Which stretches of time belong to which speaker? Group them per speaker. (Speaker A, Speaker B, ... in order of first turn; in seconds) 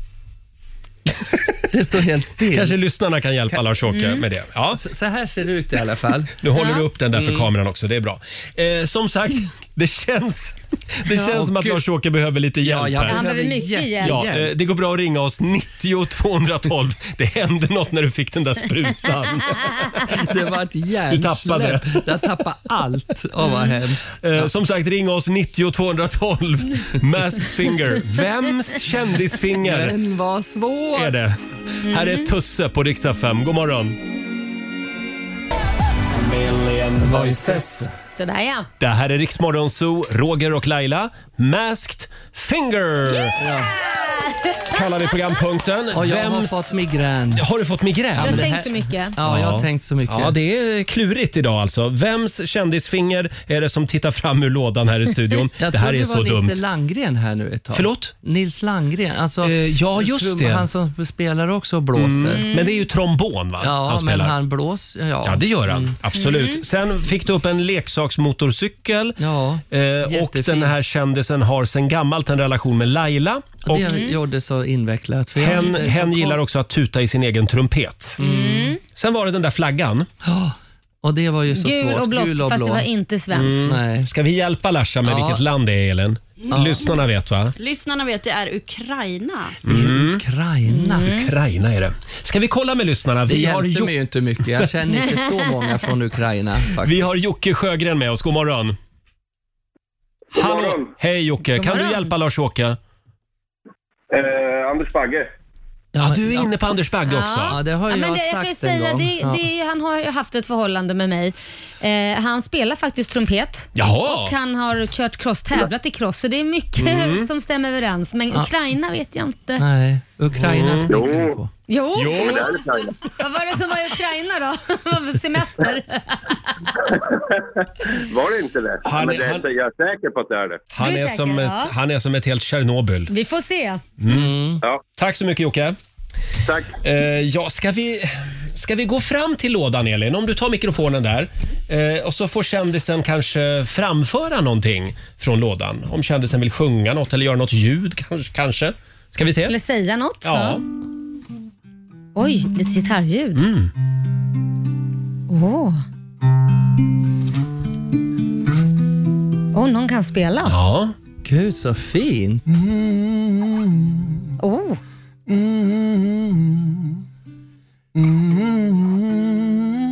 Speaker A: 1.7-2.8, 4.7-6.3, 7.1-7.5, 11.1-11.8, 12.6-14.5, 20.1-24.5, 29.6-31.1, 37.0-37.9, 43.4-43.7, 45.9-47.4, 48.1-50.3, 55.6-62.4, 63.6-65.9, 69.2-70.7, 73.7-76.4, 78.2-78.7, 80.2-82.9, 83.6-84.1, 85.0-85.4, 86.5-86.8, 89.6-91.1, 93.3-97.1, 105.9-106.5, 107.5-109.4, 119.6-121.5, 134.1-134.6, 161.2-162.4
Speaker B: 2.5-4.8, 6.4-13.2, 14.0-20.1, 21.1-22.2, 24.2-30.0, 30.9-34.0, 36.1-37.9, 38.8-43.4, 44.7-46.7, 47.3-48.5, 49.2-56.6, 57.7-58.1, 59.4-60.7, 61.9-64.4, 65.2-69.2, 69.7-73.9, 75.4-78.2, 78.9-80.1, 83.3-87.5, 89.6-90.2, 91.0-93.9, 96.8-98.8, 100.3-102.8, 106.0-107.6, 113.7-114.3, 116.8-117.3, 120.3-121.0, 121.9-122.4, 128.8-129.4, 130.7-133.1, 134.0-134.3, 134.9-135.8, 136.8-149.6, 150.2-150.6, 153.3-153.7, 160.4-160.9, 162.6-163.6, 165.3-166.4, 168.0-169.5
Speaker C: 3.9-4.2, 6.5-6.8, 13.1-14.2, 23.4-23.7, 31.8-32.3, 38.1-38.7, 43.9-44.6, 48.2-49.1, 62.4-62.8, 66.1-66.6, 73.8-74.1, 78.2-78.8, 81.5-83.7, 90.7-91.3, 101.5-102.1, 107.1-119.6, 121.7-126.7, 130.8-131.7, 133.1-133.8, 149.5-150.6, 152.2-153.4, 155.3-155.8, 159.5-160.6, 164.4-164.8
Speaker D: 87.6-89.6
Speaker E: 100.3-100.9, 104.1-105.3, 120.9-121.4, 122.0-123.0, 127.1-130.6, 136.4-136.8